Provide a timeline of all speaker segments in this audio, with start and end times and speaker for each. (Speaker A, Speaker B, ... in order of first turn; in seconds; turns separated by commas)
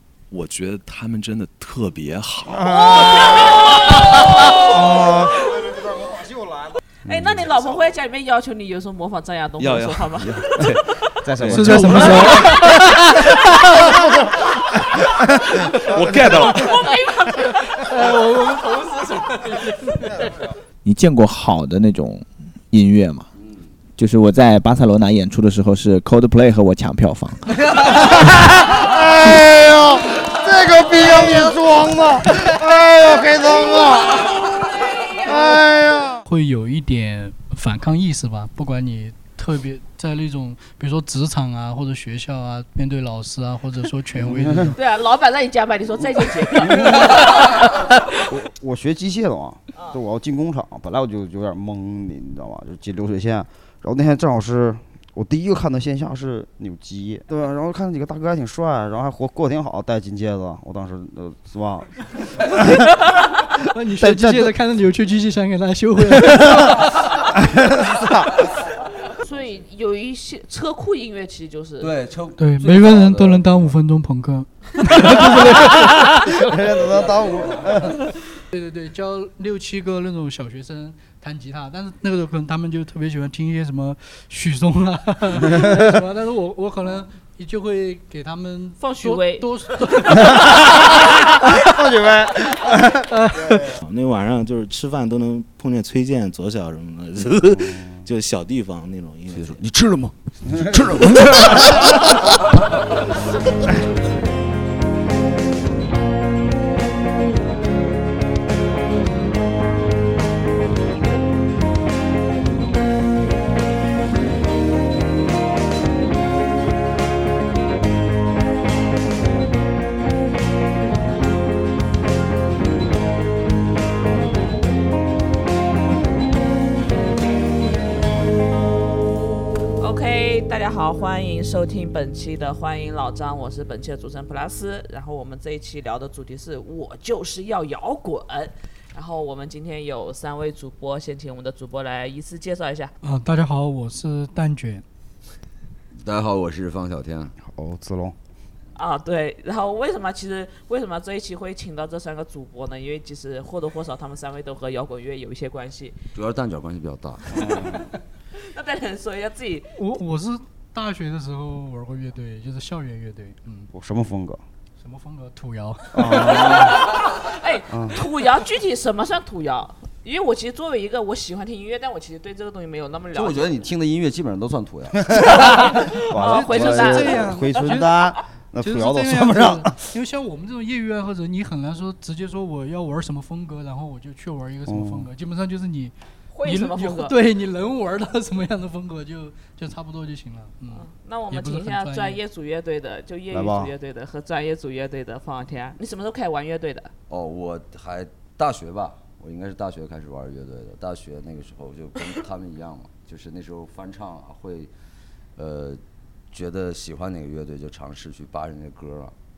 Speaker A: 0.3-3.4, Speaker B: 2.6-6.8, Speaker C: 2.7-5.6, Speaker C: 7.0-10.7, Speaker A: 9.6-10.7, Speaker B: 11.2-12.5, Speaker D: 11.4-11.8, Speaker A: 11.5-12.6, Speaker E: 11.5-13.9, Speaker C: 12.0-12.7, Speaker B: 15.4-16.5, Speaker A: 15.8-16.7, Speaker C: 16.6-17.6, Speaker E: 17.8-20.3, Speaker F: 20.8-23.3, Speaker D: 23.4-23.7, Speaker F: 24.0-27.6, Speaker D: 27.5-28.2, Speaker B: 28.0-34.6, Speaker B: 35.2-36.2, Speaker E: 36.2-44.8, Speaker B: 44.2-44.7, Speaker C: 44.8-47.9, Speaker B: 46.6-47.4, Speaker B: 48.3-62.5, Speaker E: 63.7-67.0, Speaker B: 64.0-64.5, Speaker B: 66.2-66.7, Speaker B: 67.5-68.3, Speaker C: 69.2-71.9, Speaker D: 71.8-73.7, Speaker E: 72.4-76.3, Speaker B: 76.2-78.0, Speaker D: 76.6-78.0, Speaker E: 78.5-90.6, Speaker B: 85.5-85.9, Speaker C: 88.8-90.7, Speaker B: 91.5-93.6, Speaker E: 93.1-93.8, Speaker G: 93.8-99.6, Speaker B: 97.4-98.0, Speaker D: 99.3-102.6, Speaker B: 100.5-102.1, Speaker C: 129.8-142.9, Speaker E: 143.0-144.8, Speaker D: 146.0-147.3, Speaker B: 147.4-148.2, Speaker C: 148.8-156.0, Speaker D: 156.1-157.6, Speaker B: 157.4-157.8, Speaker C: 158.4-159.7, Speaker E: 159.8-163.7, Speaker B: 163.7-164.4, Speaker E: 164.8-166.8, Speaker B: 165.9-166.8, Speaker C: 166.1-173.6, Speaker B: 167.7-168.0, Speaker D: 173.1-175.6, Speaker C: 175.2-177.4, Speaker B: 176.1-179.8, Speaker E: 176.2-192.2, Speaker B: 184.7-185.1, Speaker C: 186.3-187.2, Speaker C: 190.7-196.9, Speaker B: 193.3-193.7, Speaker D: 197.1-204.7, Speaker D: 205.3-205.8, Speaker D: 206.3-209.1